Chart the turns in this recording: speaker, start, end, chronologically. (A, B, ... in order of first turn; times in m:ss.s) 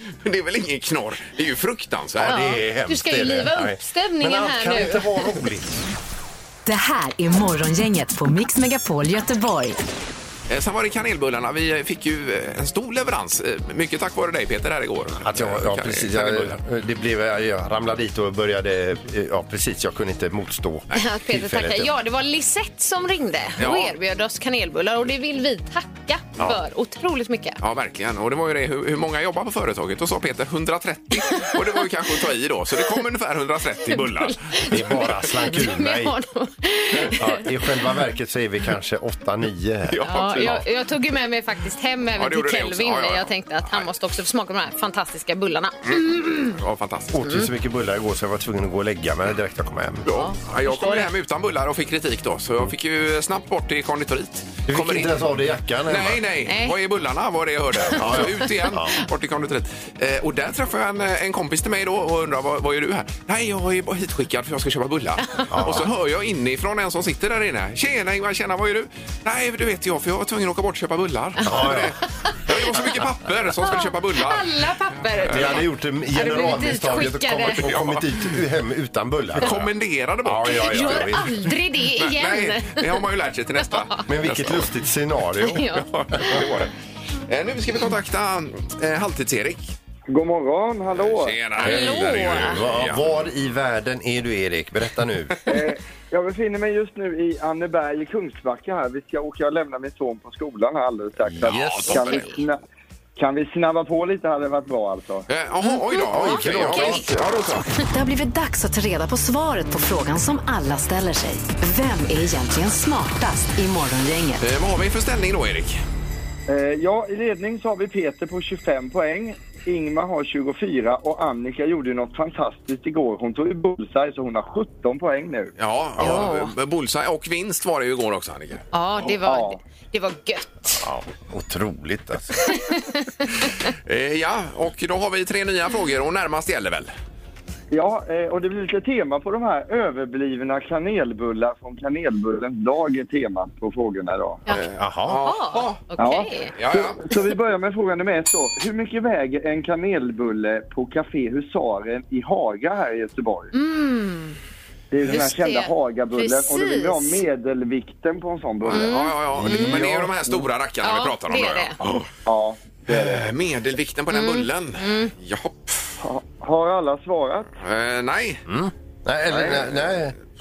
0:00.2-0:02.4 A
0:02.2-0:05.8 B
0:02.2-0:05.2 C
0:06.6-0:09.8 D
0:10.5-0:16.6 A
0:15.2-0:21.9 B
0:20.9-0:27.6 C
0:23.6-0:23.9 A
0:27.6-0:34.6 A
0:33.9-0:37.4 C
0:34.7-0:36.2 B
0:37.1-0:40.6 B
0:39.9-0:40.6 A
0:40.0-0:46.6 C
0:42.2-0:43.8 A
0:45.8-0:47.2 A
0:47.1-0:50.0 B
0:47.2-0:47.5 C
0:50.0-0:55.3 A
0:50.1-0:51.1 C
0:54.7-0:56.2 B
0:55.9-1:14.7 A
0:56.4-0:56.7 C
0:57.9-0:58.2 C
0:57.9-0:58.9 B
1:05.5-1:05.9 B
1:11.4-1:12.0 B
1:13.6-1:17.7 C
1:15.2-1:15.5 A
1:15.3-1:19.7 B
1:17.6-1:18.2 A
1:19.4-1:21.2 A
1:20.2-1:21.5 B
1:20.5-1:23.0 C
1:22.0-1:24.7 A
1:23.7-1:24.0 C
1:24.1-1:26.5 B
1:25.4-1:26.4 C
1:25.7-1:26.7 A
1:27.3-1:29.7 A
1:30.1-1:31.4 E
1:31.0-1:33.3 A
1:31.6-1:32.6 C
1:31.6-1:35.4 B
1:35.4-1:42.6 E
1:41.3-1:42.2 B
1:41.4-1:42.2 A
1:41.9-1:42.4 C
1:43.2-1:45.3 E
1:45.3-1:47.7 A
1:45.6-1:47.1 C
1:46.1-1:47.1 B
1:47.9-1:54.4 D
1:54.4-1:55.8 A
1:56.5-2:05.5 E
2:05.6-2:08.6 A
2:06.0-2:06.2 B
2:06.0-2:06.5 C
2:08.7-2:10.8 C
2:09.1-2:09.6 E
2:10.8-2:12.6 B
2:12.5-2:13.0 C
2:13.8-2:16.9 A
2:17.7-2:24.4 E
2:24.5-2:25.8 A
2:24.7-2:25.2 B
2:25.2-2:26.5 C
2:26.0-2:33.5 E
2:26.5-2:27.0 A
2:33.5-2:34.4 C
2:34.9-2:38.9 E
2:35.0-2:37.2 C
2:38.6-2:42.1 A
2:38.7-2:39.8 C
2:39.3-2:40.2 B
2:40.8-2:41.7 C
2:42.2-2:43.2 E
2:42.9-2:45.8 A
2:44.1-2:45.1 C
2:46.0-2:47.5 E
2:47.6-2:48.4 A
2:48.5-2:50.1 B
2:49.3-2:49.7 E